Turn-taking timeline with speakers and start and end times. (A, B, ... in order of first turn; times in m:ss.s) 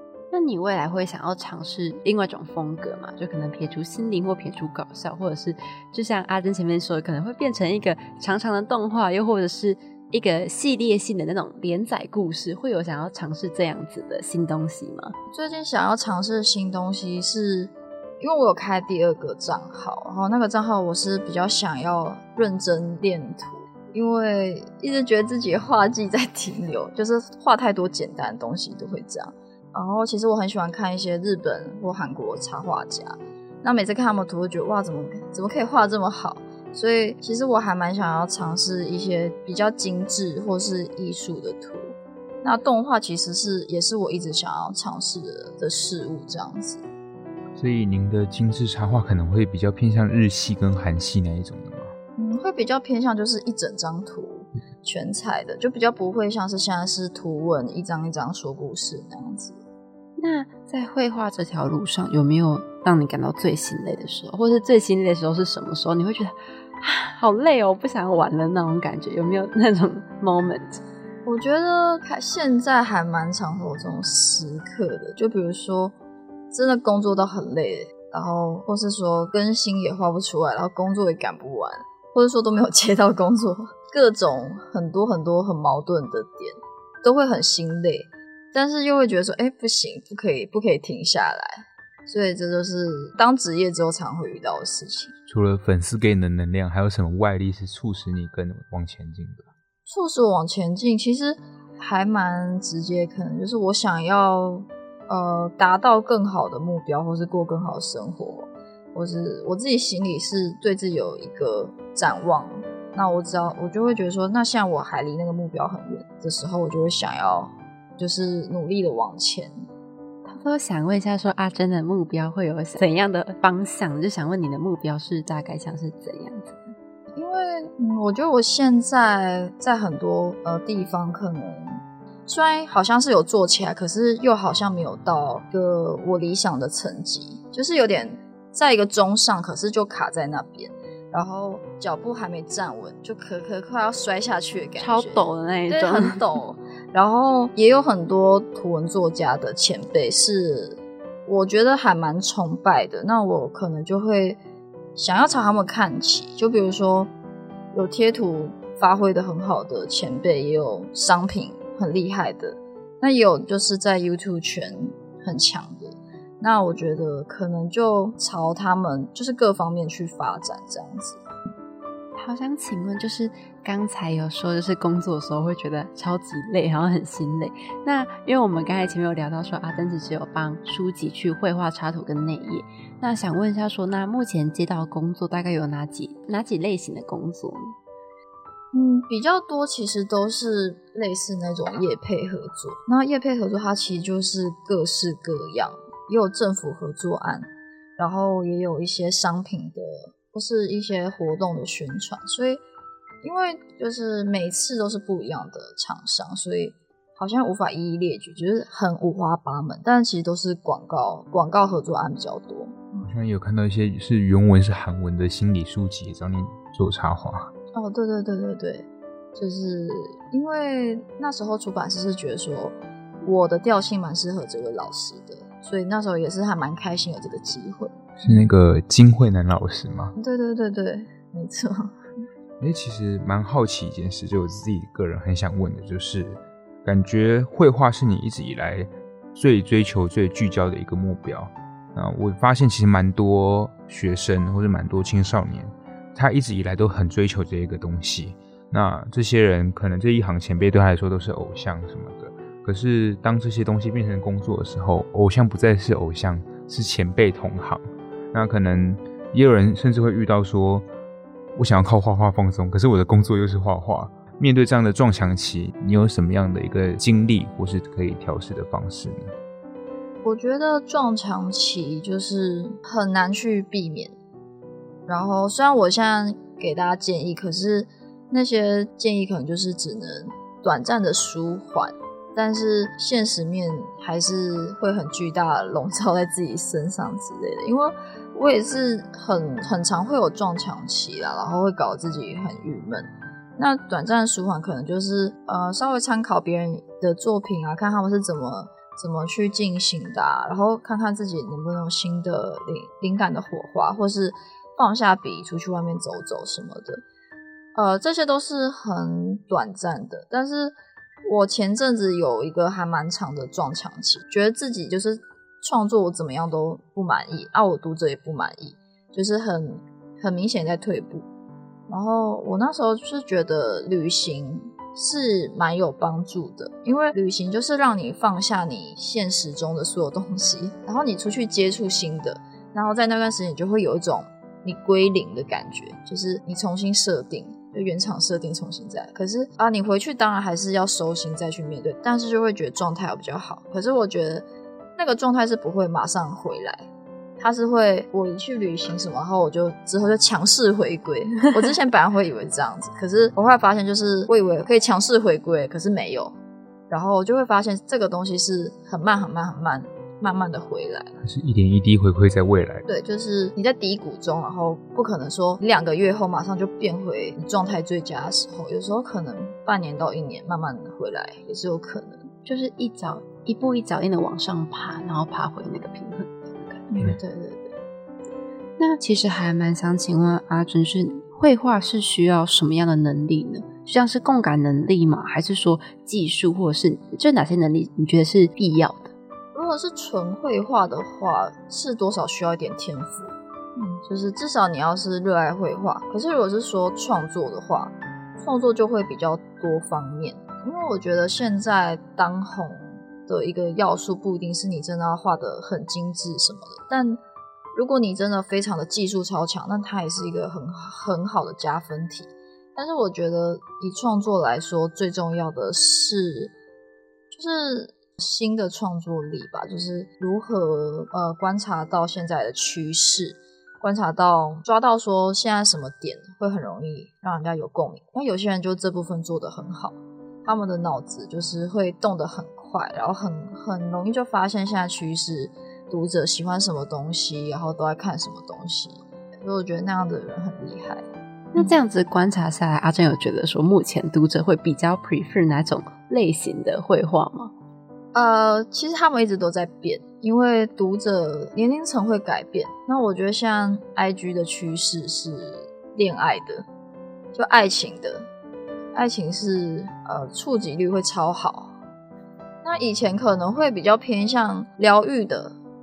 0:00.3-0:15.1 A
0:15.3-0:46.8 B
0:47.6-0:51.9 C
0:52.2-0:59.6 B
1:00.2-1:10.8 A
1:11.2-1:15.9 B
1:16.5-1:35.2 B
1:35.3-1:39.5 C
1:39.9-1:59.5 B
2:00.2-2:06.6 A
2:07.2-2:34.4 B
2:24.8-2:26.2 A
2:35.0-2:37.1 B
2:37.7-2:51.2 B
2:52.2-3:07.7 A
3:08.7-3:22.6 B
3:23.2-3:33.1 B
3:33.0-3:37.5 C
3:37.7-3:48.5 B
3:48.2-3:50.1 C
3:50.2-3:52.0 B
3:52.6-4:20.8 C
4:21.6-4:29.3 C
4:30.2-4:34.2 B
4:35.1-5:07.0 B
5:07.8-5:10.8 B
5:11.3-5:21.3 B
5:21.9-5:44.5 B
5:45.0-5:46.8 B
5:47.4-5:56.3 B
5:56.9-6:01.2 B
6:01.2-6:02.9 C
6:02.9-6:12.3 B
6:12.4-6:16.9 A
6:16.9-6:17.8 B
6:18.8-6:29.1 A
6:29.5-6:47.2 B
6:47.8-6:56.5 B
6:57.3-7:21.0 B
7:21.5-7:27.5 A
7:28.1-7:36.6 B
7:37.3-7:38.3 B
7:38.9-7:41.7 B
7:42.6-7:45.6 B